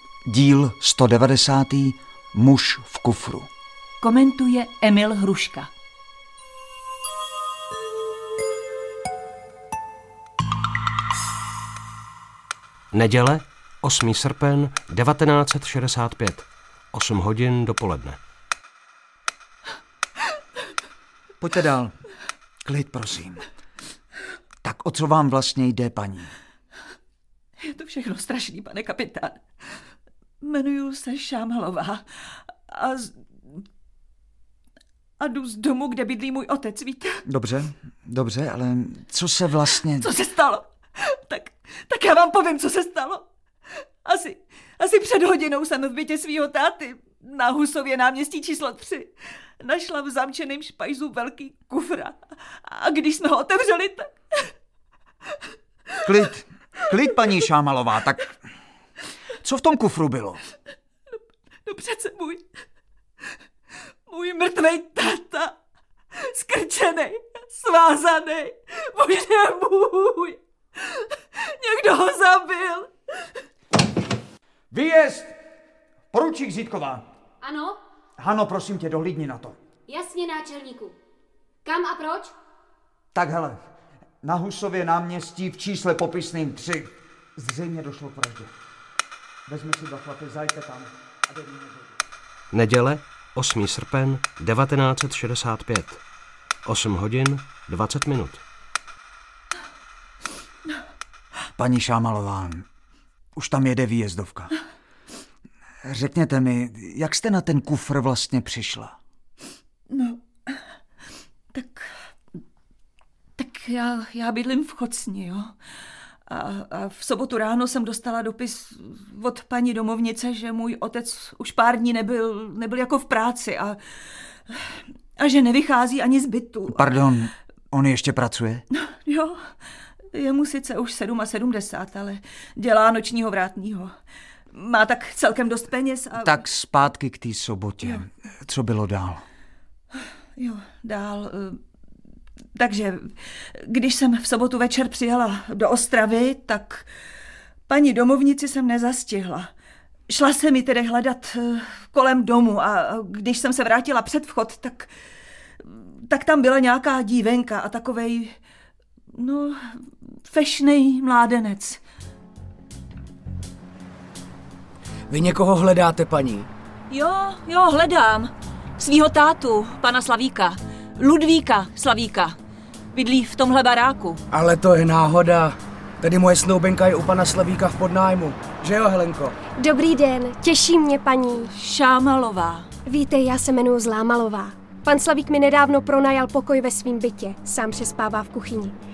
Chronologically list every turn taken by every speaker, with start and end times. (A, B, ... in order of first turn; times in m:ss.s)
0:00.3-0:03.5 A
0:04.0-0:05.7 B
0:12.9-0:18.2 C
0:21.4-0:22.0 A
0:22.6-0:23.4 A
0:24.6-0:26.3 A
0:27.6-0:29.4 B
0:30.4-0:32.0 B
0:32.7-0:33.6 B
0:35.2-0:37.2 B
0:37.3-0:40.1 A
0:40.0-0:43.2 B
0:44.0-0:54.5 B
0:56.0-0:58.3 A
0:59.4-1:00.4 A
1:01.6-1:02.5 B
1:04.1-1:05.6 B
1:06.2-1:12.9 B
1:14.7-1:15.4 A
1:16.1-1:17.0 A
1:17.4-1:17.8 D
1:18.2-1:19.6 A
1:19.9-1:21.0 D
1:21.6-1:22.3 D
1:23.1-1:23.6 A
1:24.2-1:28.5 A
1:29.5-1:32.0 A
1:32.5-1:36.0 C
1:36.6-1:38.4 C
1:41.6-1:42.7 A
1:43.4-1:44.5 A
1:45.8-1:49.0 A
1:49.9-1:50.6 B
1:51.5-1:51.9 B
1:53.4-1:55.5 B
1:56.3-2:03.8 B
2:04.5-2:06.9 B
2:06.7-2:08.6 A
2:08.7-2:09.5 B
2:10.1-2:13.9 B
2:14.5-2:16.4 B
2:16.2-2:19.2 A
2:20.4-2:21.6 B
2:22.5-2:26.8 B
2:27.7-2:29.5 B
2:30.1-2:34.9 B
2:35.6-2:38.4 B
2:39.1-2:41.8 B
2:45.1-2:46.5 E
2:46.9-2:52.4 B
2:52.9-2:54.2 B
2:54.3-2:59.4 E
2:59.6-3:01.5 F
3:01.4-3:02.7 B
3:02.9-3:08.8 F